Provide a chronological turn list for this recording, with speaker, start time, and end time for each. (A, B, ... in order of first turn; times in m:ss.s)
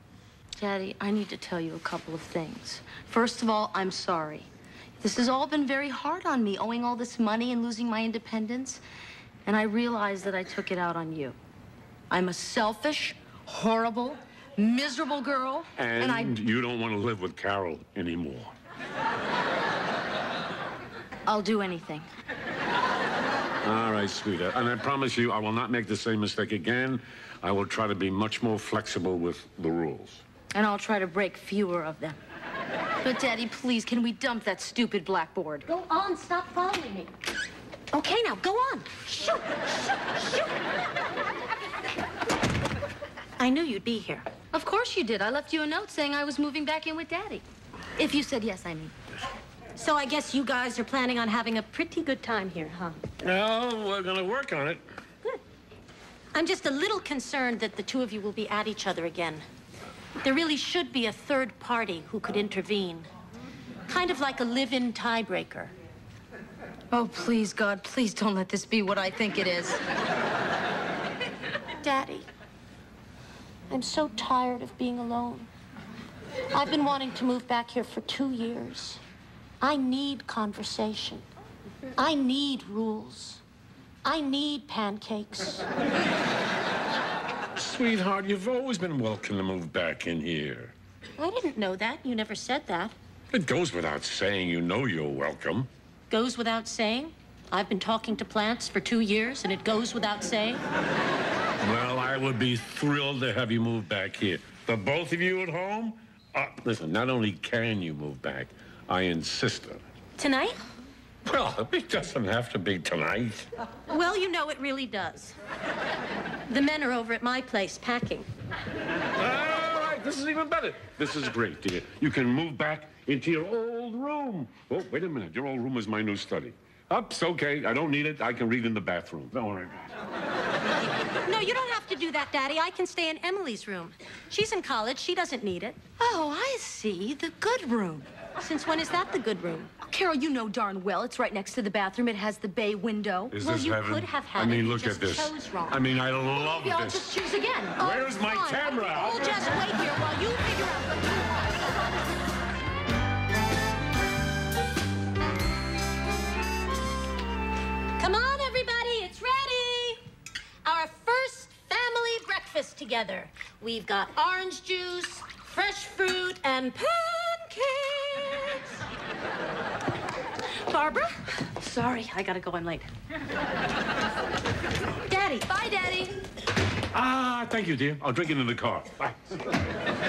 0:00.6-0:04.5 A
0:05.0-0:08.8 A
0:09.4-0:11.4 A
0:12.1-0:16.3 A
0:15.8-0:18.5 B
0:21.2-0:22.1 A
0:23.6-0:30.2 B
0:30.5-0:32.2 A
0:33.0-0:35.7 A
0:35.7-0:37.1 C
0:37.9-0:40.5 C
0:43.4-0:44.3 C
0:44.5-0:47.4 A
0:48.0-0:48.9 A
0:49.7-0:53.0 C
0:53.2-0:54.8 B
0:56.3-0:59.4 C
1:00.2-1:03.1 C
1:03.9-1:05.7 C
1:06.9-1:09.8 A
1:11.8-1:12.3 C
1:13.7-1:15.5 C
1:16.5-1:19.0 C
1:19.6-1:21.2 C
1:22.0-1:23.4 C
1:24.0-1:25.6 C
1:27.6-1:30.7 B
1:31.2-1:32.9 C
1:33.3-1:35.7 B
1:36.1-1:40.6 C
1:41.6-1:49.8 B
1:50.2-1:50.6 C
1:51.2-1:53.5 B
1:53.9-1:55.4 C
1:56.5-1:58.3 C
1:59.2-2:09.9 B
2:11.2-2:15.8 C
2:16.0-2:18.1 A
2:18.4-2:19.7 C
2:19.8-2:23.4 A
2:23.3-2:27.1 B
2:23.4-2:25.8 C
2:26.3-2:27.8 A
2:27.8-2:29.8 B
2:27.8-2:31.3 C
2:30.4-2:31.5 A
2:38.0-2:40.0 C
2:40.6-2:48.6 C
2:50.7-2:51.2 C
2:51.5-2:52.9 A
2:55.1-2:55.5 C
2:55.5-2:56.2 A
2:56.9-2:59.3 B